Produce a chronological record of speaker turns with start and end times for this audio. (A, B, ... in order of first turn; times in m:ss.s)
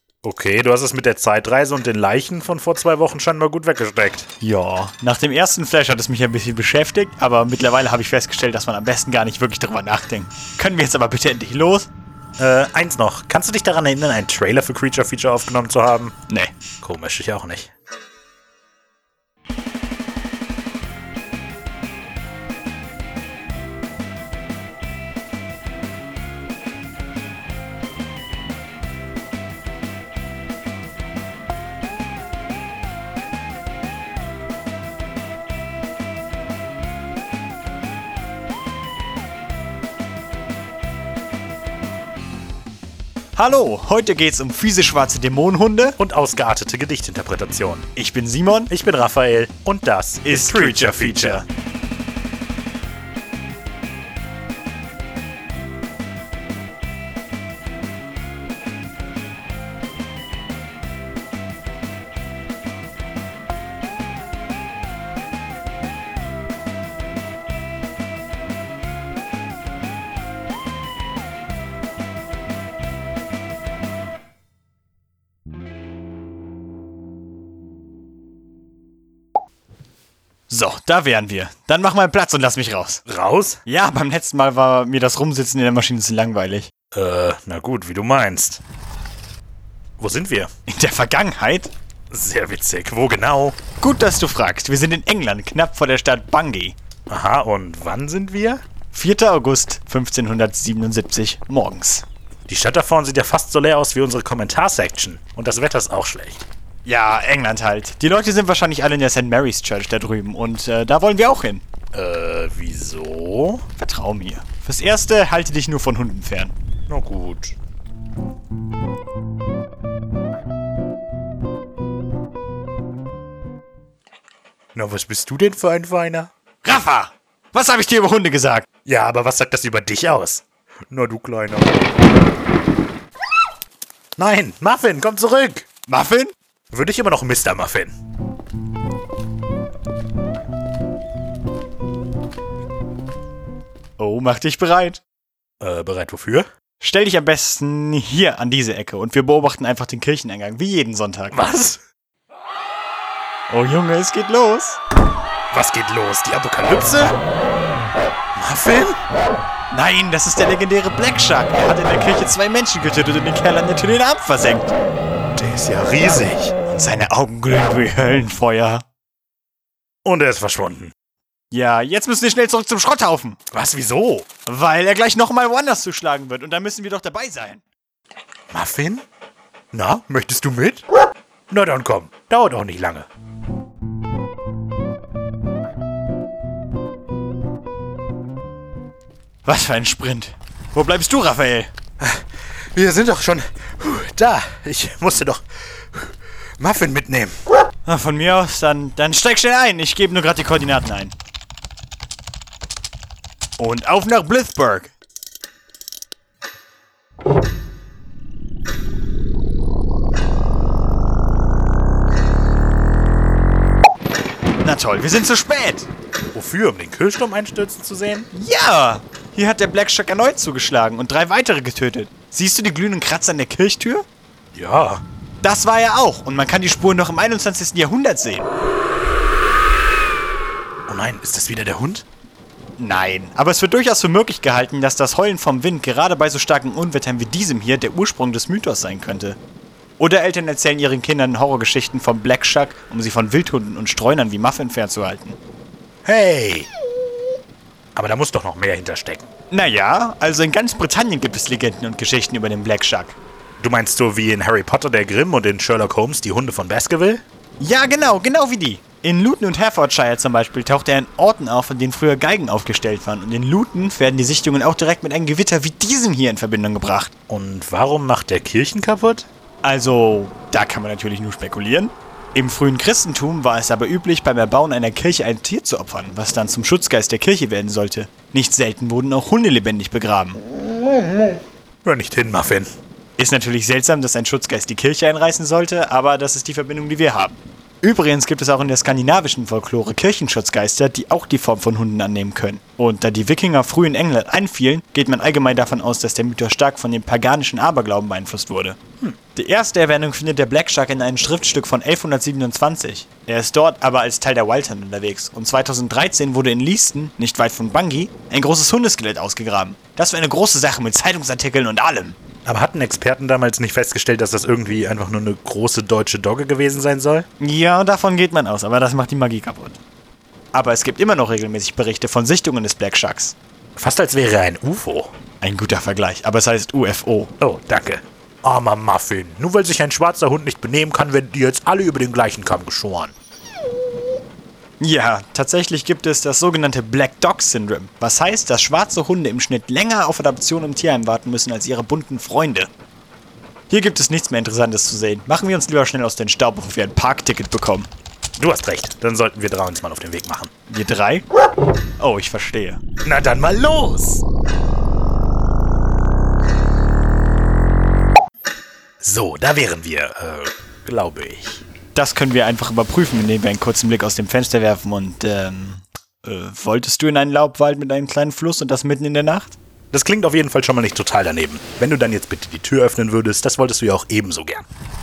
0:00.2-0:04.3 A
0:04.4-0:11.9 B
0:12.4-0:16.2 A
0:16.8-0:17.7 A
0:43.4-0:46.0 B
0:46.0-0:47.9 A
0:48.0-0:48.7 B
0:48.7-0:51.4 A
0:50.2-0:51.5 B
1:20.5-1:23.0 B
1:23.1-1:23.6 A
1:23.7-1:26.7 B
1:26.9-1:28.6 A
1:30.0-1:30.5 A
1:30.7-1:31.7 B
1:32.1-1:33.6 A
1:33.8-1:36.8 B
1:37.1-1:38.6 A
1:38.9-1:42.0 B
1:42.5-1:46.5 A
1:46.8-1:51.6 B
1:51.9-1:53.6 A
1:53.8-1:56.6 B
1:56.9-1:57.6 A
2:04.8-2:06.3 A
2:06.6-2:08.7 B
2:08.9-2:11.8 A
2:14.2-2:15.7 A
2:15.9-2:16.3 B
2:16.7-2:17.9 A
2:24.0-2:25.0 B
2:25.6-2:26.5 A
2:26.8-2:31.4 B
2:31.3-2:31.8 A
2:33.5-2:34.8 B
2:35.5-2:37.2 A
2:38.4-2:39.0 A
2:39.7-2:44.7 B
2:45.4-2:46.6 A
2:46.7-2:48.8 B
2:50.0-2:50.9 A
2:51.5-2:53.4 B
2:53.5-2:54.3 A
2:54.5-2:57.6 B
2:58.5-2:59.0 A
2:59.7-3:00.8 A
3:01.5-3:03.1 A
3:09.4-3:11.7 B
3:12.0-3:17.4 A
3:17.8-3:21.1 B
3:23.6-3:24.9 B
3:34.6-3:35.9 B
3:36.3-3:38.3 A
3:38.3-3:44.0 B
3:44.5-3:45.0 A
3:45.4-3:48.5 B
3:50.9-3:52.1 A
3:52.8-3:59.4 B
4:00.0-4:05.4 B
4:06.0-4:06.7 A
4:08.0-4:09.3 A
4:09.5-4:13.2 B
4:13.6-4:17.2 A
4:17.6-4:27.1 B
4:27.3-4:29.3 A
4:29.6-4:40.4 B
4:41.8-4:42.7 A
4:43.2-4:58.8 B
4:59.4-5:12.2 B
5:12.5-5:17.3 A
5:17.4-5:19.8 B
5:20.5-5:23.4 B
5:23.8-5:25.1 A
5:25.4-5:27.3 B
5:27.4-5:33.1 A
5:34.8-5:42.7 B
5:43.7-5:47.9 B
5:48.4-5:50.5 A
5:50.7-5:51.2 B
5:52.0-5:52.8 B
5:53.0-5:54.2 A
5:59.0-6:01.6 A
6:02.0-6:09.6 B
6:09.9-6:14.6 A